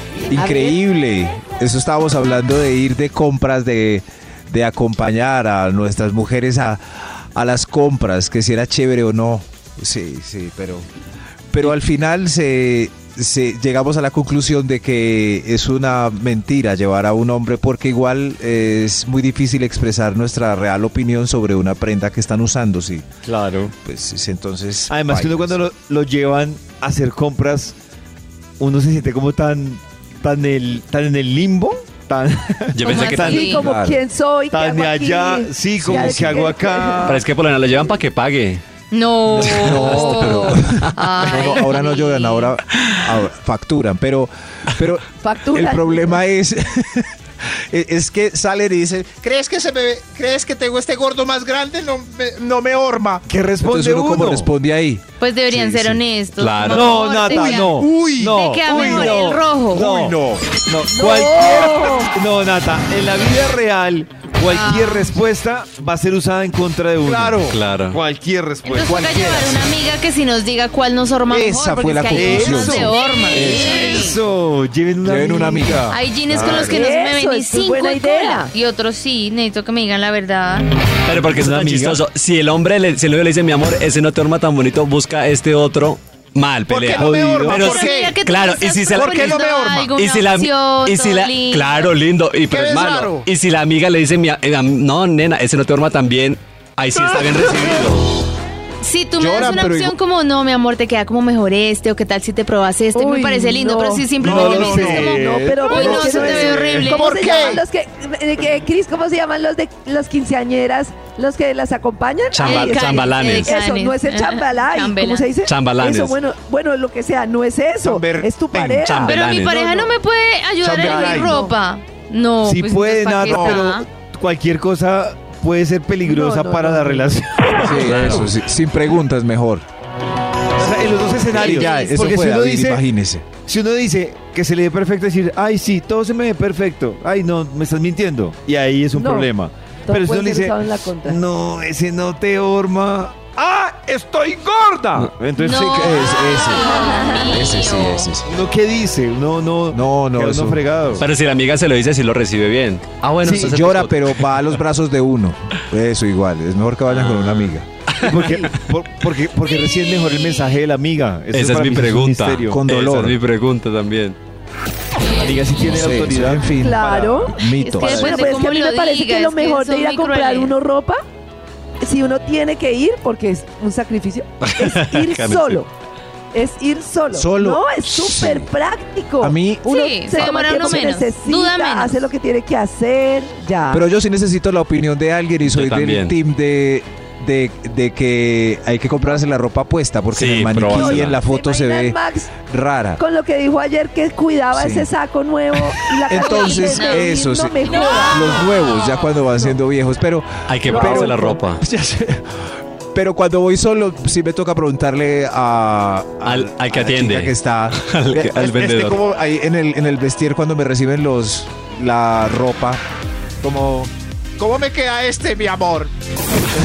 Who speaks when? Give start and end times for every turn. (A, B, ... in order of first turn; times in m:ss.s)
0:00.3-0:06.8 A
0:00.3-0:00.8 B
0:07.3-0:10.9 A
0:11.5-0:23.1 A
0:23.2-0:23.7 C
0:23.8-0:25.6 A
0:24.9-0:27.7 C
0:28.6-0:33.5 C
0:32.7-0:33.6 D
0:32.8-0:33.7 E
0:33.2-0:37.2 B
0:33.5-0:34.0 A
0:34.5-0:37.2 C
0:35.8-0:36.1 D
0:35.9-0:36.4 A
0:37.0-0:38.6 D
0:38.9-0:42.5 E
0:39.3-0:47.1 A
0:39.4-0:41.4 D
0:45.2-0:46.2 B
0:47.7-0:56.0 A
0:50.1-0:51.8 F
0:53.3-0:54.5 C
0:55.2-0:59.9 E
0:56.4-0:57.2 D
0:56.7-1:09.0 C
0:57.4-1:00.6 A
1:00.9-1:02.1 B
1:04.4-1:05.1 E
1:07.0-1:07.6 A
1:07.4-1:08.0 D
1:08.6-1:14.2 E
1:08.8-1:09.7 A
1:11.3-1:13.9 A
1:12.1-1:16.7 C
1:15.0-1:16.8 A
1:15.9-1:20.7 E
1:16.6-1:18.5 B
1:21.0-1:38.2 D
1:21.1-1:22.0 C
1:26.7-1:28.1 F
1:27.0-1:27.7 C
1:27.4-1:31.8 E
1:28.9-1:29.8 F
1:29.0-1:29.7 A
1:32.5-1:33.3 F
1:38.8-1:47.1 E
1:39.2-1:39.9 A
1:42.9-1:59.2 B
1:44.2-1:45.7 A
1:44.2-1:47.0 C
1:47.0-1:47.6 F
1:52.3-1:53.6 D
1:52.4-1:55.3 E
1:55.4-1:56.2 D
1:57.8-1:58.9 A
1:58.8-1:59.7 D
1:59.0-2:03.9 E
2:00.6-2:01.4 A
2:00.7-2:01.5 B
2:02.4-2:07.9 C
2:03.3-2:03.6 A
2:06.0-2:07.2 B
2:07.6-2:09.6 A
2:07.7-2:08.4 D
2:10.6-2:12.8 C
2:11.2-2:13.3 A
2:11.3-2:11.9 E
2:13.4-2:26.1 C
2:18.9-2:19.3 B
2:19.8-2:21.2 B
2:25.4-2:28.1 E
2:25.4-2:28.3 A
2:28.3-2:31.1 C
2:29.7-2:30.6 A
2:31.0-2:34.5 D
2:33.2-2:33.5 C
2:33.3-2:37.7 A
2:36.9-2:38.6 D
2:38.0-2:42.6 C
2:41.3-2:44.2 D
2:42.5-2:43.2 A
2:45.2-2:47.3 C
2:45.6-2:48.3 A
2:46.5-2:51.0 B
2:47.6-2:50.5 E
2:47.8-2:48.2 C
2:51.8-2:55.7 B
2:54.4-2:55.6 D
2:56.3-3:03.8 B
2:57.1-2:58.5 A
2:59.2-2:59.7 A
2:59.6-3:02.0 E
3:03.7-3:13.0 A
3:05.4-3:06.1 D
3:10.1-3:11.2 D
3:10.7-3:12.3 B
3:13.0-3:18.5 B
3:14.5-3:14.9 A
3:16.1-3:22.2 A
3:16.2-3:17.0 E
3:17.7-3:18.0 E
3:20.5-3:21.6 D
3:20.6-3:21.4 B
3:22.9-3:32.8 A
3:26.2-3:29.0 D
3:33.4-3:33.9 A
3:34.4-3:35.9 F
3:35.4-3:35.7 A